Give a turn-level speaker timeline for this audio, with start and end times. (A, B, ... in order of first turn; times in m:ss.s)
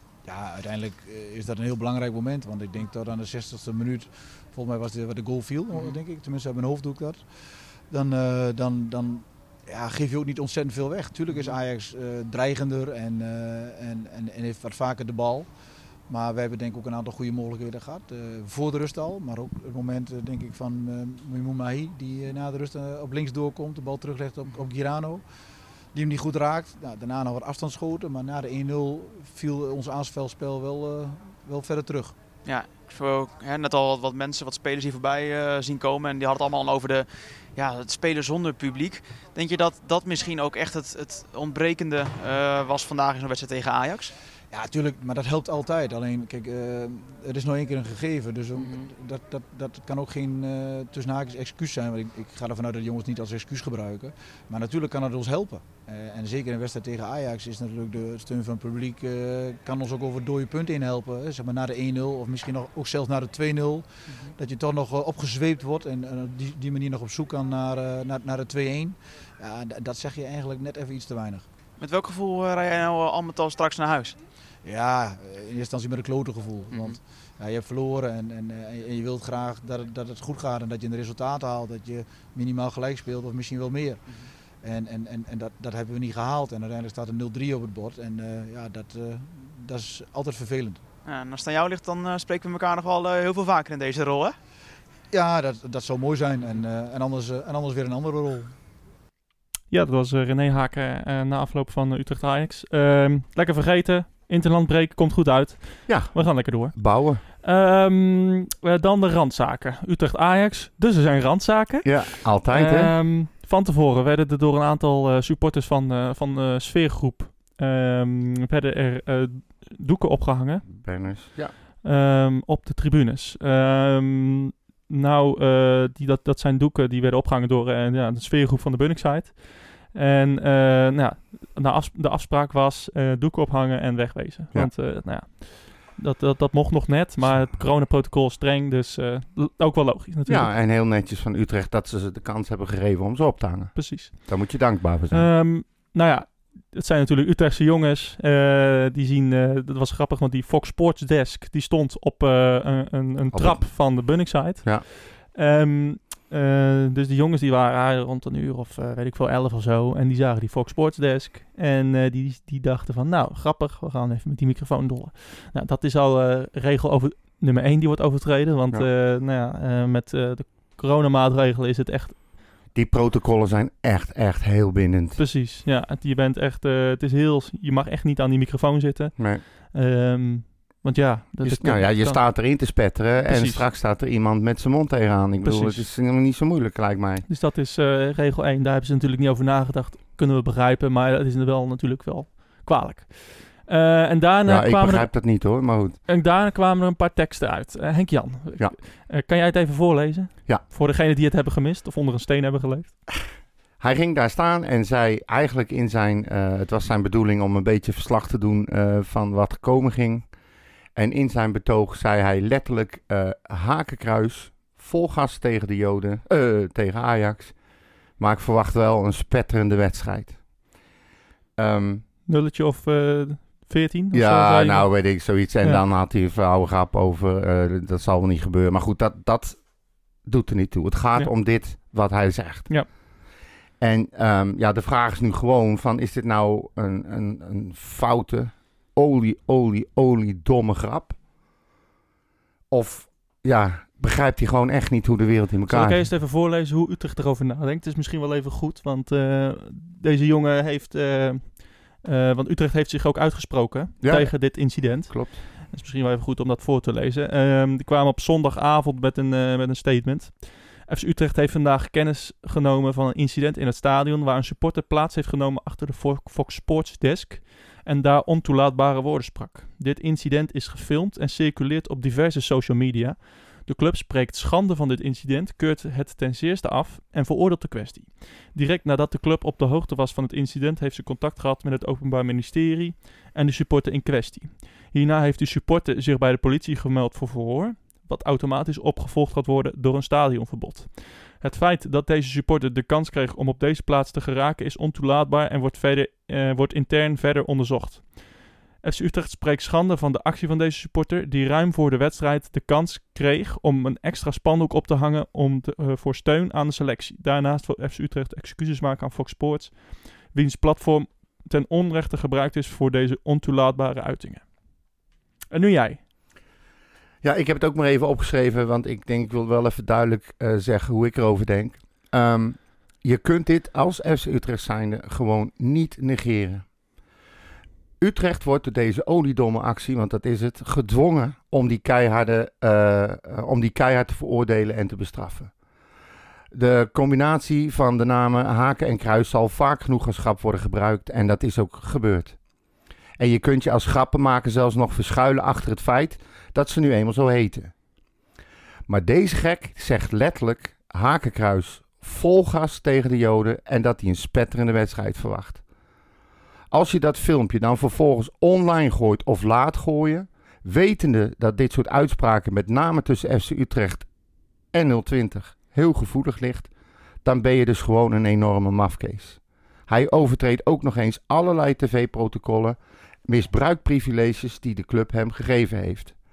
0:00.2-0:15.5 A
0:05.7-0:06.0 B
0:11.3-0:11.6 B
0:16.1-0:25.2 A
0:25.9-0:32.1 A
0:32.4-0:44.1 B
0:44.5-1:11.4 A
0:48.5-0:48.9 B
1:11.8-1:14.2 B
1:14.6-1:30.8 A
1:16.7-1:17.0 B
1:31.0-1:34.4 B
1:35.1-1:38.6 A
1:39.7-2:00.8 C
1:45.9-1:47.2 D
1:51.8-1:52.9 D
2:00.7-2:01.5 D
2:01.8-2:20.5 C
2:20.2-2:25.3 D
2:23.7-2:52.2 C
2:33.3-2:34.8 D
2:52.7-2:55.2 D
2:55.2-3:03.6 C
2:59.2-2:59.4 D
3:01.4-3:07.2 D
3:05.4-3:05.9 C
3:07.3-3:23.0 C
3:14.4-3:16.0 D
3:23.8-3:30.3 D
3:30.9-3:40.5 D
3:41.6-3:42.0 D
3:42.2-3:45.8 C
3:44.1-3:53.1 D
3:53.8-4:01.2 D
4:02.7-4:06.1 D
4:05.7-5:15.0 C
4:14.0-4:15.4 D
5:15.5-5:16.0 C
5:17.2-5:26.7 D
5:28.0-5:35.5 D
5:36.5-5:42.4 D
5:43.2-5:47.7 D
5:48.9-5:55.6 D
5:56.7-6:04.1 D
6:04.7-6:06.7 D
6:07.2-6:16.2 D